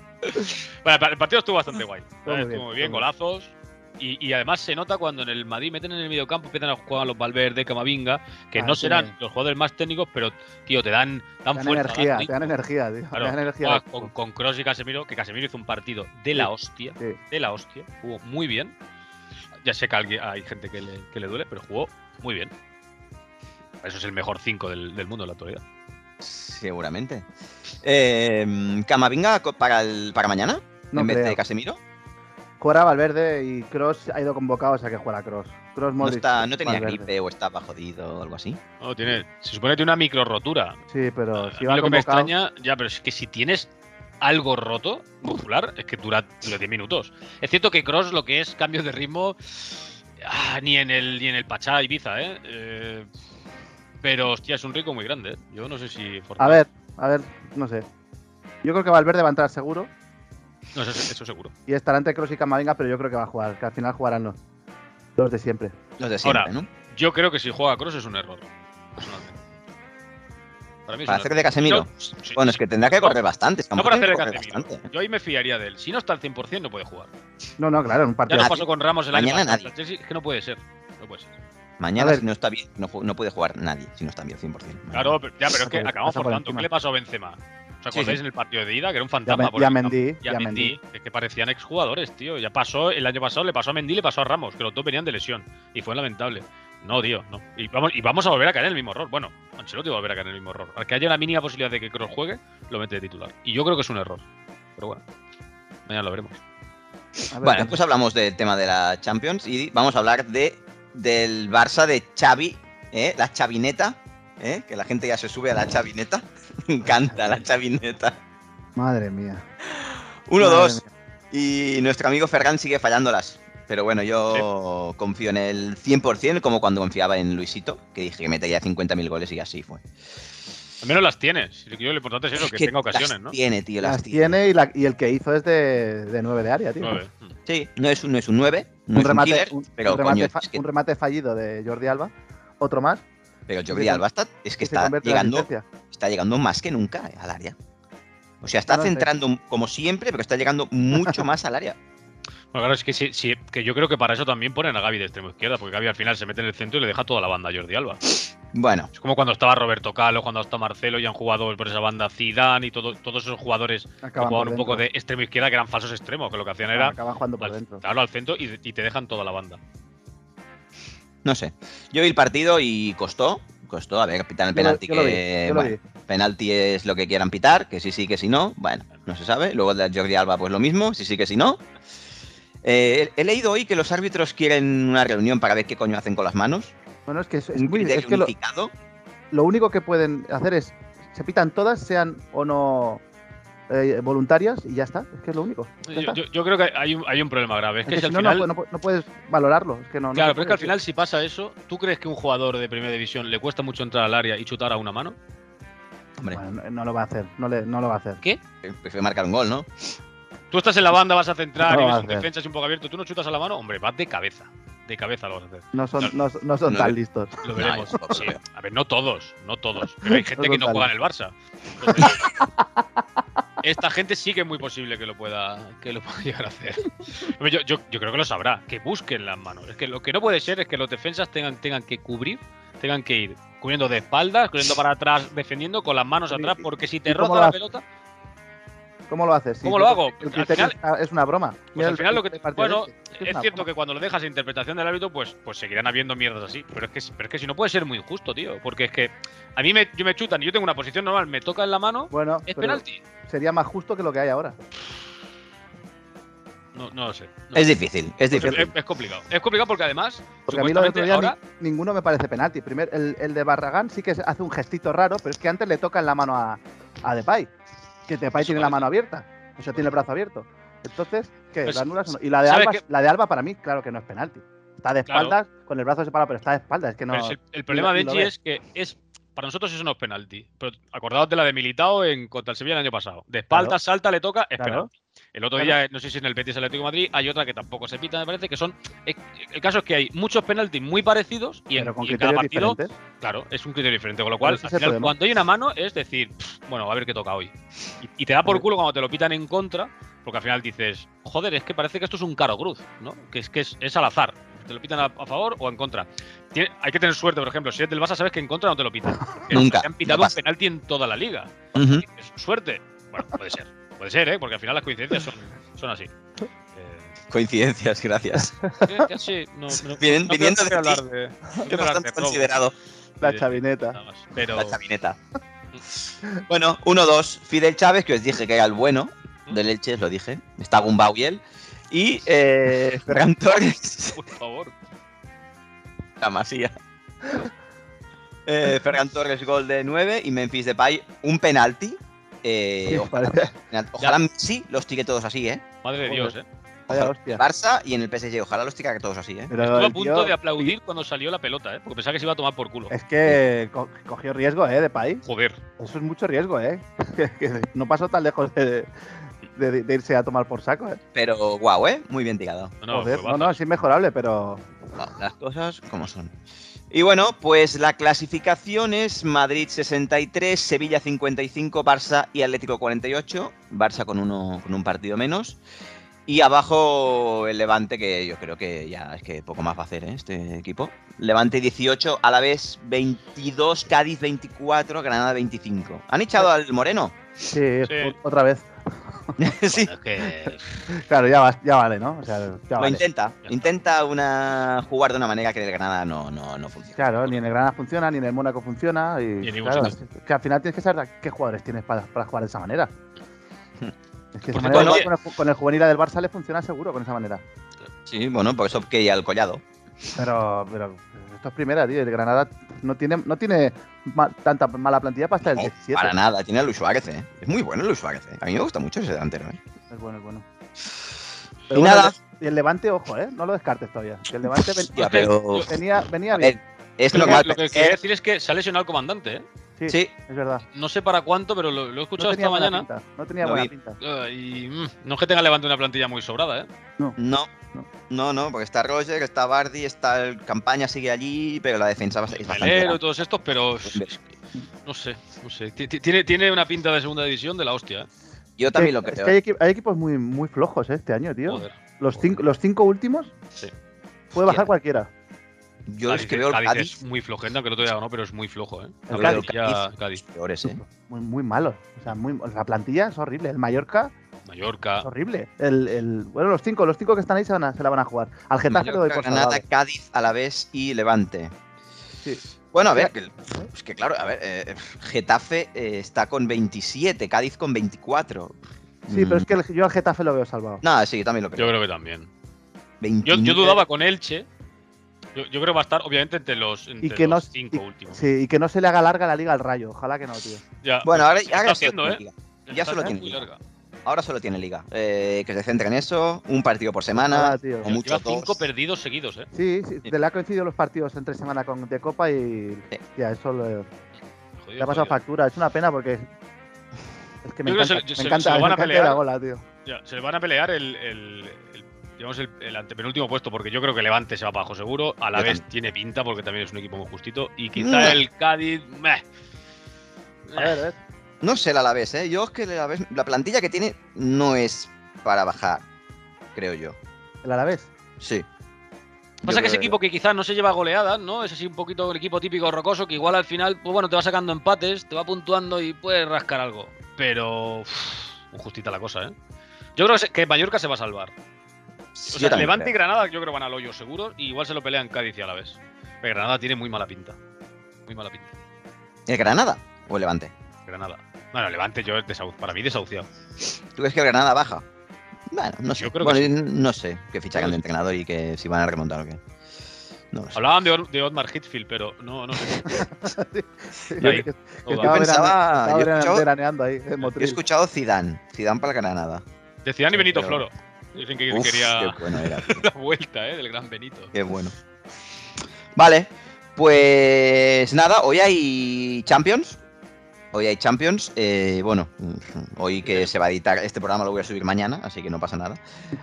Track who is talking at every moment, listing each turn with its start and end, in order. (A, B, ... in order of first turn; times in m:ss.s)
0:00.3-0:12.5 A
0:02.3-0:03.0 B
0:08.6-0:09.1 B
0:11.6-0:14.1 B
0:13.2-0:18.7 A
0:16.4-0:17.2 B
0:19.6-0:22.5 A
0:23.8-0:25.6 A
0:26.2-0:27.3 C
0:27.8-0:31.8 C
0:30.9-0:31.4 B
0:32.6-0:37.1 B
0:36.0-0:38.6 C
0:38.8-0:40.8 A
0:40.9-0:42.3 B
0:41.4-0:43.7 A
0:44.2-0:53.1 A
0:54.0-0:56.6 A
0:56.4-0:57.9 B
0:58.6-0:59.9 B
1:00.8-1:01.5 A
1:01.7-1:04.4 B
1:05.2-1:05.8 B
1:06.0-1:06.7 C
1:06.2-1:09.4 A
1:10.9-1:13.2 A
1:11.1-1:14.8 C
1:13.8-1:17.1 A
1:17.6-1:18.6 B
1:18.3-1:21.3 A
1:18.3-1:19.7 C
1:21.8-1:25.2 C
1:22.0-1:22.2 B
1:24.9-1:44.2 A
1:25.6-1:26.7 B
1:27.9-1:28.2 C
1:29.3-1:30.7 B
1:44.8-1:45.0 A
1:45.9-1:46.4 A
1:47.3-1:47.8 B
1:47.4-1:58.2 C
1:58.8-1:59.4 B
1:59.7-2:09.8 C
2:00.4-2:00.9 B
2:10.8-2:13.4 A
2:12.4-2:14.4 C
2:13.8-2:17.0 B
2:16.8-2:17.3 A
2:17.5-2:20.6 C
2:18.9-2:23.0 B
2:23.5-2:27.6 C
2:23.7-2:24.0 B
2:24.6-2:25.7 B
2:28.4-2:31.8 C
2:28.7-2:29.1 B
2:32.5-2:38.0 A
2:38.5-2:38.9 C
2:38.9-2:49.6 A
2:44.0-2:44.8 B
2:46.7-2:47.8 B
2:51.2-3:01.6 C
2:54.5-2:55.8 B
3:02.6-3:06.7 C
3:07.1-3:08.3 B
3:07.5-3:08.7 C
3:09.3-3:13.0 B
3:13.7-3:16.2 B
3:15.9-3:18.5 A
3:17.9-3:20.8 B
3:20.1-3:25.2 A
3:26.3-3:28.2 B
3:28.6-3:29.7 C
3:30.5-3:36.1 A
3:31.6-3:32.3 B
3:35.7-3:37.4 B
3:36.7-3:36.9 C
3:37.4-3:42.3 A
3:37.5-3:38.4 C
3:40.0-3:40.9 B
3:41.9-3:42.8 B
3:43.6-3:57.8 A
3:56.3-3:57.6 B
3:59.1-4:03.7 B
3:59.6-4:00.8 A
4:01.8-4:13.0 A
4:12.1-4:14.6 B
4:16.7-4:17.7 A
4:17.5-4:18.7 C
4:18.3-4:21.4 A
4:20.5-4:27.5 B
4:28.1-4:38.3 B
4:28.4-4:28.8 A
4:31.7-4:32.8 A
4:35.1-4:35.4 A
4:37.1-5:16.1 A
4:43.5-4:43.8 B
4:44.6-4:44.9 B
4:51.8-4:52.9 B
4:54.4-4:55.1 B
5:09.5-5:10.4 C
5:11.8-5:12.0 C
5:16.8-5:17.2 A
5:17.3-5:18.6 C
5:18.8-5:22.6 A
5:19.9-5:21.0 C
5:21.6-5:22.7 C
5:23.2-5:24.0 B
5:23.2-5:24.8 A
5:24.5-5:25.2 C
5:26.0-5:34.2 C
5:34.2-5:34.7 A
5:36.2-5:36.7 C
5:38.5-5:45.6 C
5:42.9-5:43.5 B
5:45.8-5:46.4 A
5:46.0-5:46.4 B
5:46.9-5:49.5 C
5:46.9-5:47.4 B
5:49.5-5:50.7 B
5:49.6-5:52.9 A
5:52.9-5:55.2 B
5:55.2-5:55.6 A
5:55.8-5:58.9 B
5:59.6-6:01.0 B
6:01.2-6:02.8 C
6:02.8-6:03.6 A
6:02.9-6:04.7 B
6:05.0-6:06.3 C
6:06.9-6:15.6 C
6:16.3-6:27.2 C
6:27.5-6:29.4 B
6:27.9-6:28.2 A
6:29.4-6:29.9 C
6:29.7-6:30.8 A
6:30.9-6:33.0 B
6:32.8-6:37.0 C
6:37.0-6:42.9 B
6:39.4-6:40.0 A
6:44.4-6:47.4 B
6:44.5-6:45.1 A
6:44.6-6:45.0 C
6:48.1-6:49.6 C
6:50.2-6:56.2 B
6:55.4-6:59.6 C
6:59.9-7:00.4 B
7:01.7-7:06.6 B
7:01.7-7:02.2 C
7:04.9-7:05.7 C
7:05.0-7:05.7 A
7:06.4-7:08.0 C
7:07.1-7:09.4 A
7:07.1-7:07.4 B
7:09.8-7:10.6 B
7:10.7-7:12.9 A
7:12.2-7:14.0 B
7:13.4-7:13.7 C
7:14.0-7:16.7 A
7:17.2-7:17.5 C
7:18.1-7:23.0 C
7:22.4-7:24.2 A
7:24.9-7:28.1 A
7:28.6-7:29.4 C
7:28.7-7:33.3 B
7:31.5-7:32.4 A
7:34.3-7:35.1 B
7:35.9-7:36.9 C
7:36.1-7:40.2 A
7:39.1-7:39.5 B
7:39.1-7:40.8 C
7:40.7-7:44.1 B
7:44.5-7:45.1 A
7:45.0-7:49.6 B
7:48.7-7:51.5 C
7:52.7-7:58.6 C
7:52.9-7:53.7 B
7:59.1-7:59.5 C
7:59.1-8:00.8 B
8:00.8-8:01.7 C
8:01.6-8:02.3 A
8:03.0-8:03.8 C
8:03.2-8:04.5 A
8:05.4-8:08.2 A
8:07.0-8:10.6 B
8:10.8-8:13.6 A
8:11.0-8:13.5 C
8:14.1-8:18.6 C
8:17.2-8:17.9 B
8:17.8-8:19.5 A
8:19.5-8:23.9 B
8:24.6-8:25.2 A
8:24.8-8:26.3 B
8:27.4-8:29.6 B
8:27.6-8:29.2 A
8:29.8-8:39.2 A
8:35.4-8:35.6 C
8:37.8-8:38.2 C
8:40.5-8:40.8 A
8:40.5-8:41.0 B
8:41.4-8:45.8 C
8:46.6-8:47.0 C
8:47.4-8:47.9 B
8:48.2-8:48.5 C
8:49.4-8:50.0 C
8:49.4-8:59.3 A
9:00.0-9:01.3 A
9:02.2-9:02.9 C
9:02.3-9:07.4 A
9:08.1-9:08.5 A
9:09.3-9:10.5 C
9:10.9-9:13.3 A
9:14.0-9:14.8 C
9:15.5-9:19.4 C
9:15.9-9:16.6 A
9:20.3-9:20.6 C
9:20.6-9:23.1 A
9:22.9-9:27.6 B
9:24.2-9:25.2 A
9:24.9-9:26.5 C
9:27.4-9:29.4 C
9:29.8-9:34.3 A
9:30.1-9:30.6 C
9:31.5-9:32.9 C
9:34.3-9:34.7 C
9:36.0-9:39.8 C
9:40.5-9:45.8 C